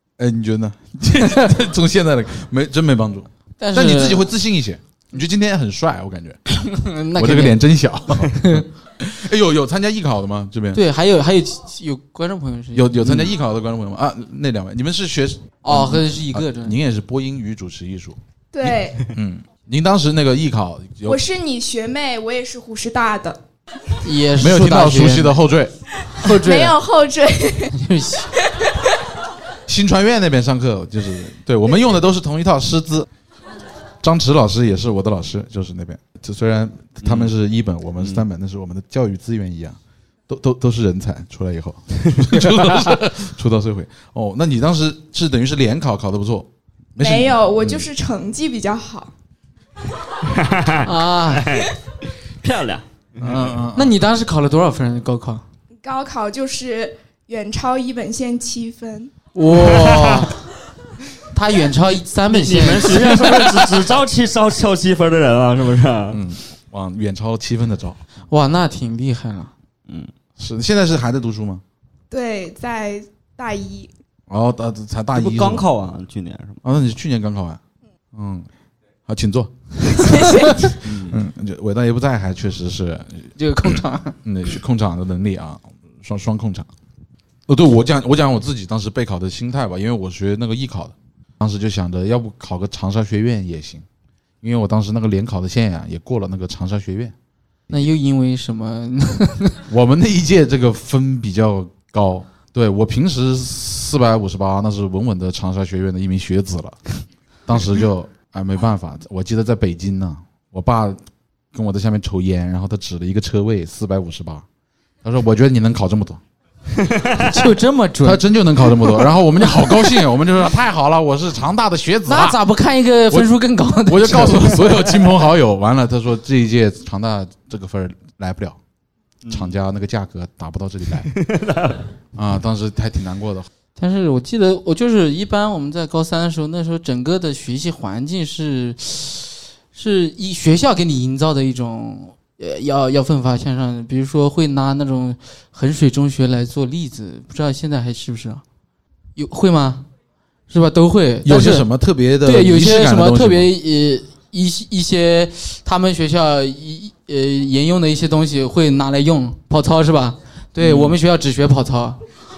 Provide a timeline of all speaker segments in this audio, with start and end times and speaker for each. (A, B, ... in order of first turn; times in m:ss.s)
0:00.2-0:06.4 A
0:03.6-0:04.3 B
0:06.6-0:07.6 B
0:07.2-0:10.8 A
0:08.3-0:08.6 B
0:10.7-0:13.1 B
0:12.7-0:21.2 A
0:15.6-0:16.8 B
0:18.5-0:19.0 C
0:21.0-0:23.4 C
0:24.0-0:25.4 B
0:24.4-0:25.7 A
0:26.1-0:27.8 C
0:26.2-0:26.8 B
0:27.7-0:28.3 B
0:28.4-0:28.8 C
0:29.7-0:33.1 A
0:34.0-0:47.9 A
0:37.0-0:37.3 D
0:47.0-0:49.1 C
0:50.2-0:51.7 D
0:50.8-0:51.5 B
0:52.4-0:53.6 D
0:53.2-0:53.9 A
0:53.8-0:55.4 B
0:55.8-0:59.1 C
0:59.4-1:00.4 B
0:59.6-1:00.3 D
1:01.3-1:03.4 B
1:02.3-1:06.2 D
1:06.1-1:08.0 A
1:08.3-1:09.5 B
1:10.4-1:11.6 A
1:12.1-1:13.9 C
1:14.3-1:15.7 A
1:15.2-1:16.6 D
1:16.6-1:17.6 A
1:18.1-1:18.5 A
1:19.1-1:20.1 A
1:19.9-1:20.8 C
1:20.8-1:21.2 D
1:20.9-1:23.3 A
1:23.4-1:24.2 B
1:24.2-1:26.7 A
1:27.5-1:33.8 A
1:34.4-1:37.1 A
1:37.7-1:39.6 B
1:39.7-1:46.8 A
1:47.5-1:51.0 A
1:51.5-1:54.4 A
1:55.0-1:56.2 A
1:56.8-1:57.3 D
1:57.2-1:58.3 B
1:58.0-2:02.4 A
2:02.1-2:04.9 B
2:03.1-2:08.6 A
2:09.2-2:09.6 D
2:09.3-2:11.1 A
2:11.1-2:11.9 D
2:12.2-2:13.5 A
2:13.8-2:28.4 B
2:29.2-2:29.8 B
2:30.5-2:31.7 B
2:31.2-2:33.5 A
2:32.2-2:42.0 B